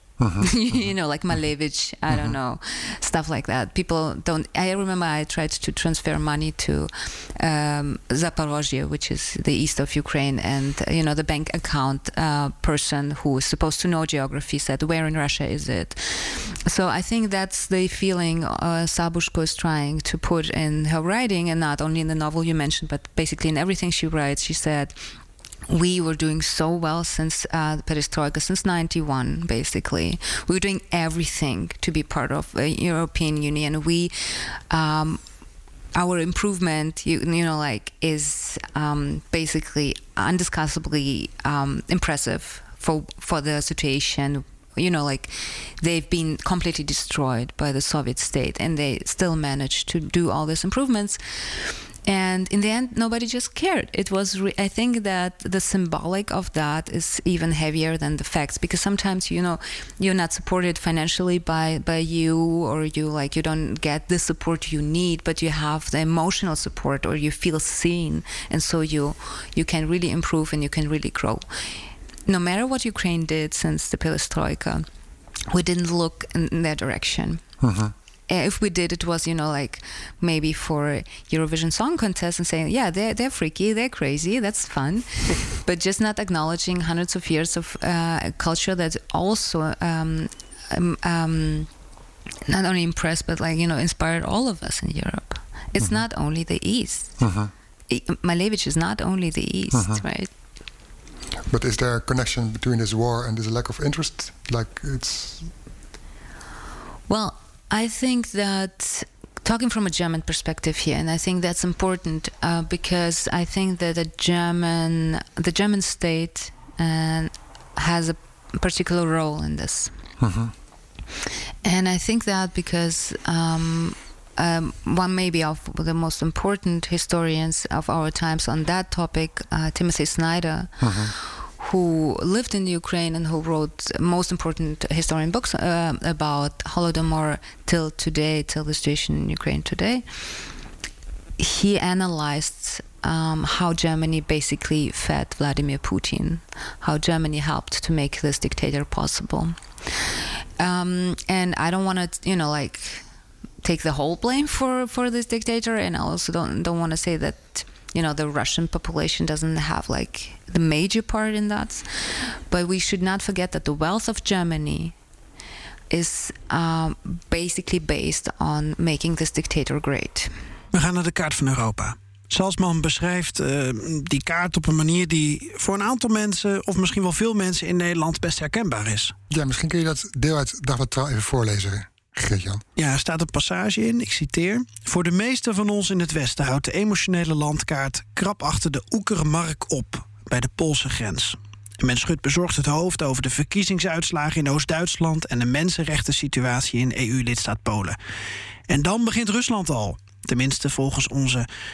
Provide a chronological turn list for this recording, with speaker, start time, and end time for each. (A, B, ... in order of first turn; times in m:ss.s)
0:00.2-0:00.5 A
0:00.4-0:25.0 B
0:25.7-0:35.2 B
0:35.9-0:51.2 B
0:52.0-1:11.4 B
1:12.3-1:14.8 B
1:15.5-1:17.4 B
1:17.6-1:17.9 A
1:18.3-1:31.7 B
1:32.5-1:37.1 B
1:37.2-1:37.5 A
1:37.9-1:40.3 B
1:39.7-1:40.0 A
1:41.5-1:45.5 A
1:47.1-1:59.9 B
2:00.2-2:00.5 A
2:01.6-2:20.4 B
2:10.8-2:11.1 A
2:21.4-2:29.6 B
2:30.6-2:33.0 B
2:33.6-2:44.9 B
2:45.9-2:50.3 B
2:50.7-2:59.1 C
2:59.3-3:02.6 A
3:02.8-3:18.0 C
3:18.7-3:21.4 C